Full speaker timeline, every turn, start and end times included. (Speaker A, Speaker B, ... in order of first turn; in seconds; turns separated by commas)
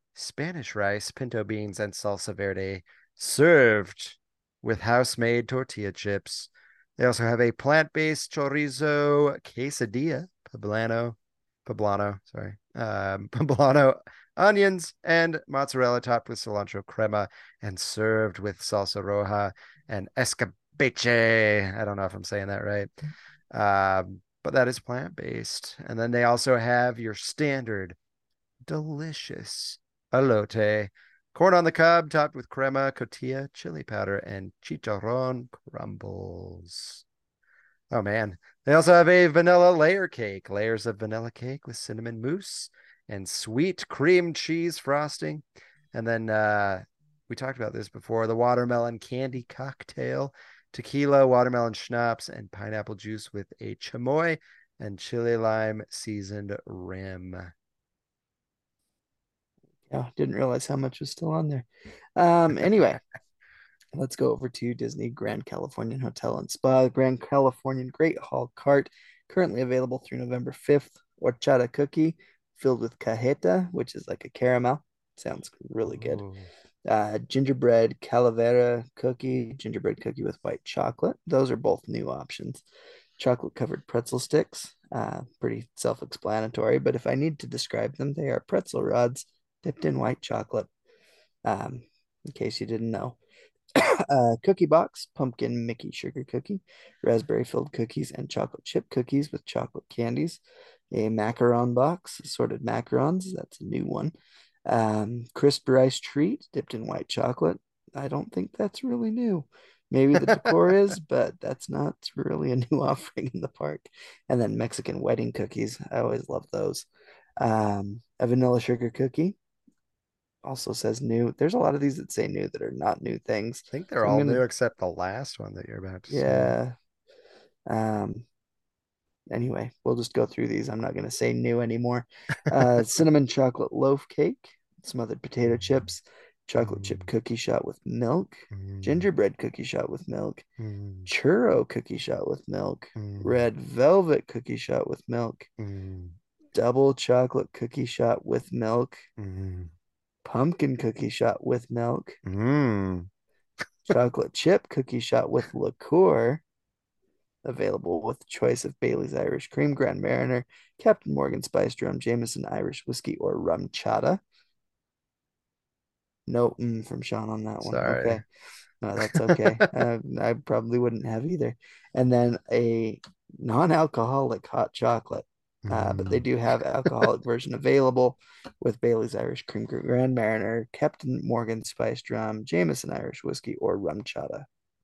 Speaker A: 0.1-22.9, Speaker A: 23.5-27.9, Speaker A: 28.6-37.0, Speaker A: 37.9-57.5, Speaker B: 59.9-63.0, Speaker B: 63.9-76.2, Speaker A: 75.9-76.5, Speaker B: 76.8-82.6, Speaker B: 83.2-90.7, Speaker B: 91.4-93.2, Speaker B: 93.7-100.4, Speaker B: 100.9-104.1, Speaker B: 104.7-116.8, Speaker B: 117.4-119.4, Speaker B: 120.4-124.4, Speaker A: 123.7-126.5, Speaker B: 126.1-126.7, Speaker B: 127.7-128.2, Speaker B: 129.3-140.4, Speaker A: 136.6-137.1, Speaker A: 138.5-139.1, Speaker A: 140.6-141.1, Speaker B: 141.1-145.5, Speaker A: 143.0-143.4, Speaker A: 145.6-146.2, Speaker B: 146.5-149.0, Speaker A: 149.2-149.7, Speaker B: 150.2-152.2, Speaker A: 152.2-153.1, Speaker B: 153.9-156.4, Speaker B: 157.4-164.2, Speaker B: 166.3-168.2, Speaker A: 167.6-168.2, Speaker B: 168.8-184.5, Speaker A: 169.0-169.7, Speaker A: 175.6-176.2